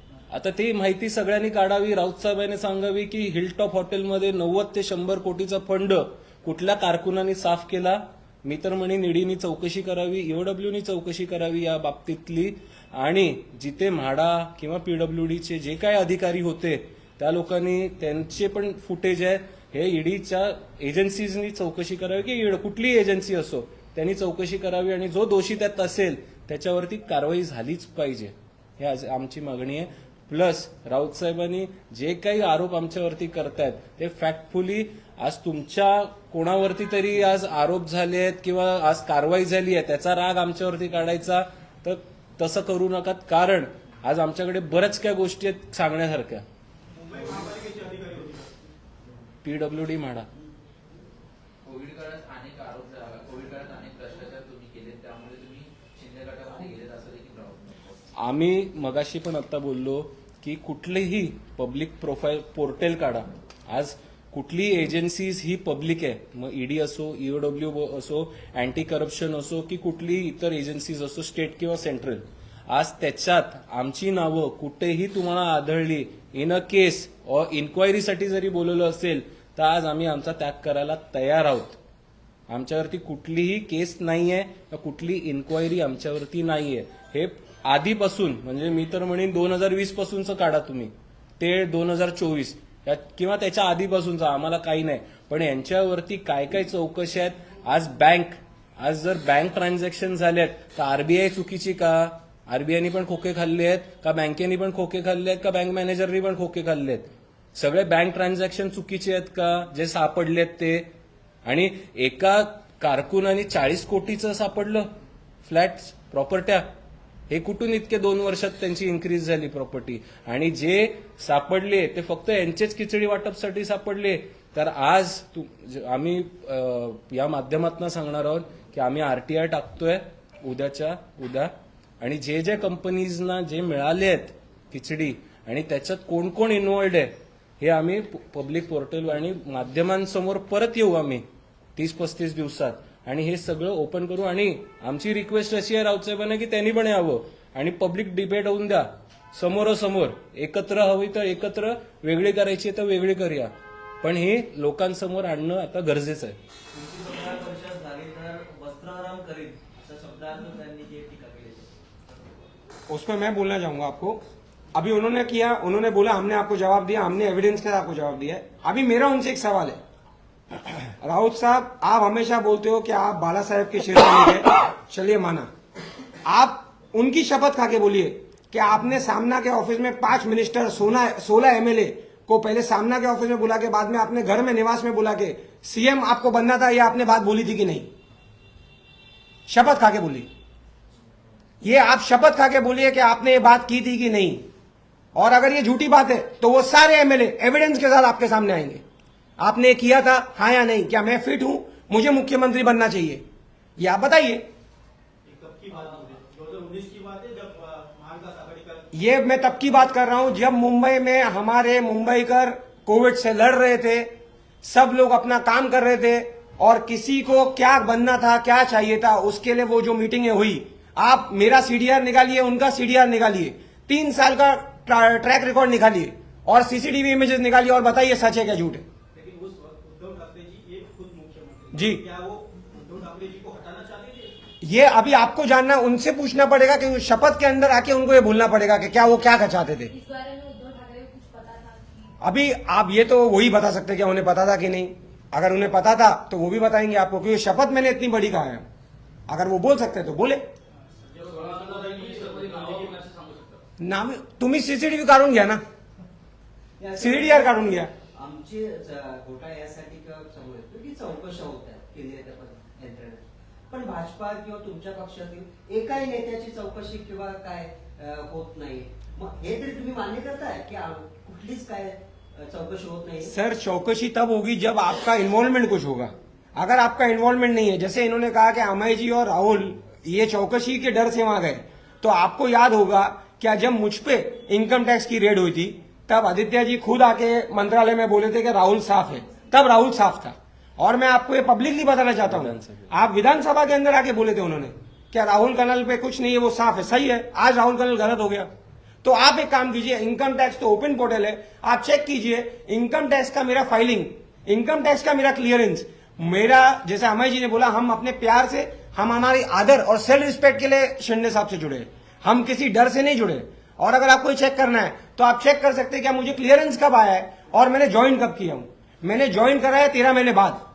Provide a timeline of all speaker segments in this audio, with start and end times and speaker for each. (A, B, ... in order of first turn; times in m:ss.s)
0:00.3-0:46.4 A
0:46.9-0:48.5 B
0:49.4-0:50.3 A
0:51.6-0:57.8 C
0:58.2-1:21.8 A
1:22.5-1:50.9 A
1:51.5-1:54.9 A
1:55.4-1:56.7 A
1:57.3-2:21.2 A
2:21.8-2:36.4 A
2:36.8-2:41.6 D
2:42.9-2:44.2 E
2:44.7-2:49.8 E
2:51.0-2:55.5 E
2:56.2-3:07.9 E
3:09.5-3:10.3 E
3:11.6-3:14.5 E
3:15.2-3:18.8 E
3:19.4-3:23.2 E
3:23.8-3:24.5 E
3:25.2-3:29.5 B
3:28.9-3:48.9 E
3:49.1-3:54.3 B
3:51.7-3:52.0 E
3:54.6-3:59.9 E
3:59.9-4:02.1 F
4:02.2-4:08.6 E
4:09.3-4:10.5 E
4:11.0-4:13.1 B
4:12.3-4:12.9 C
4:13.8-4:15.6 E
4:16.8-4:33.3 D
4:17.0-4:17.9 E
4:33.2-4:58.5 E
4:52.3-4:52.9 A
4:59.0-5:20.6 E